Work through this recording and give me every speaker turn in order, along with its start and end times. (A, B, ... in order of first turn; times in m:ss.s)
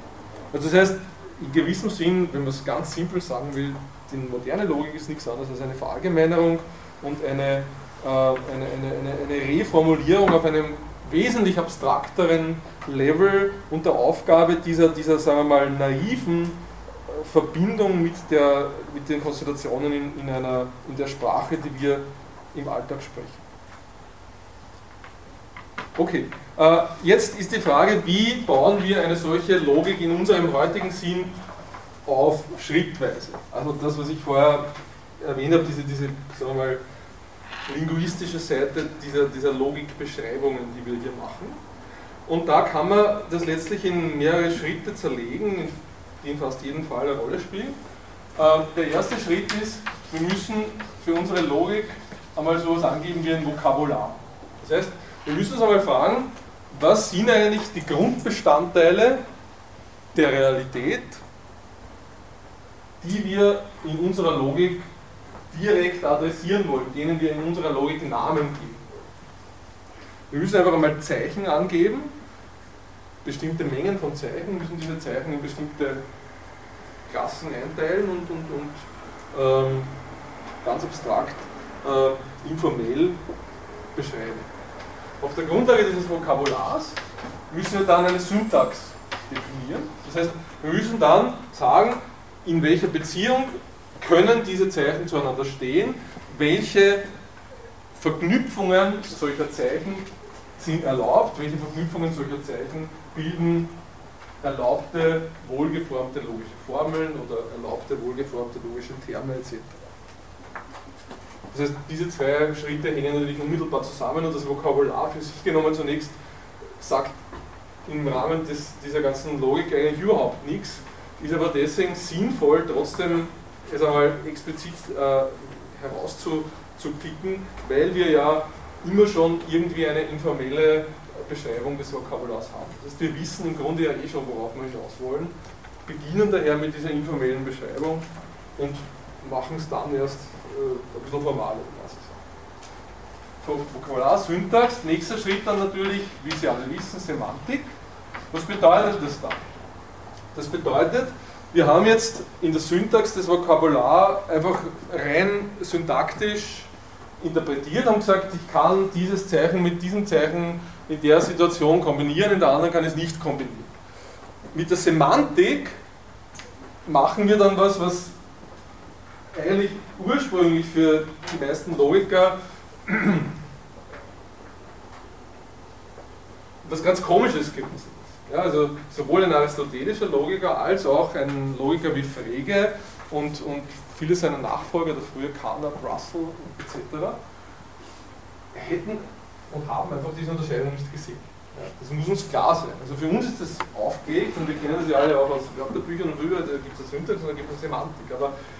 0:00.5-0:23.4 A
0:26.0-0:31.4 A
0:32.0-0:36.8 A
0:37.6-0:41.6 A
0:42.2-0:47.8 A
0:48.4-0:59.2 A
1:00.1-1:01.2 A
1:03.0-1:04.9 A
1:05.5-1:09.1 A
1:10.3-1:12.1 A
1:13.2-1:16.0 A
1:17.1-1:19.9 A
1:20.6-1:23.2 A
1:23.9-1:24.5 A
1:25.2-1:27.0 A
1:27.5-1:37.0 A
1:37.9-1:43.7 A
1:44.4-1:49.8 A
1:51.5-1:56.2 A
1:56.8-1:57.2 A
1:57.8-2:15.3 A
2:15.8-2:22.2 A
2:23.4-2:27.7 A
2:28.3-2:29.5 A
2:30.3-2:43.7 A
2:44.5-2:45.8 A
2:46.8-2:48.1 A
2:49.3-2:53.3 A
2:56.6-3:07.2 A
3:08.5-3:18.3 A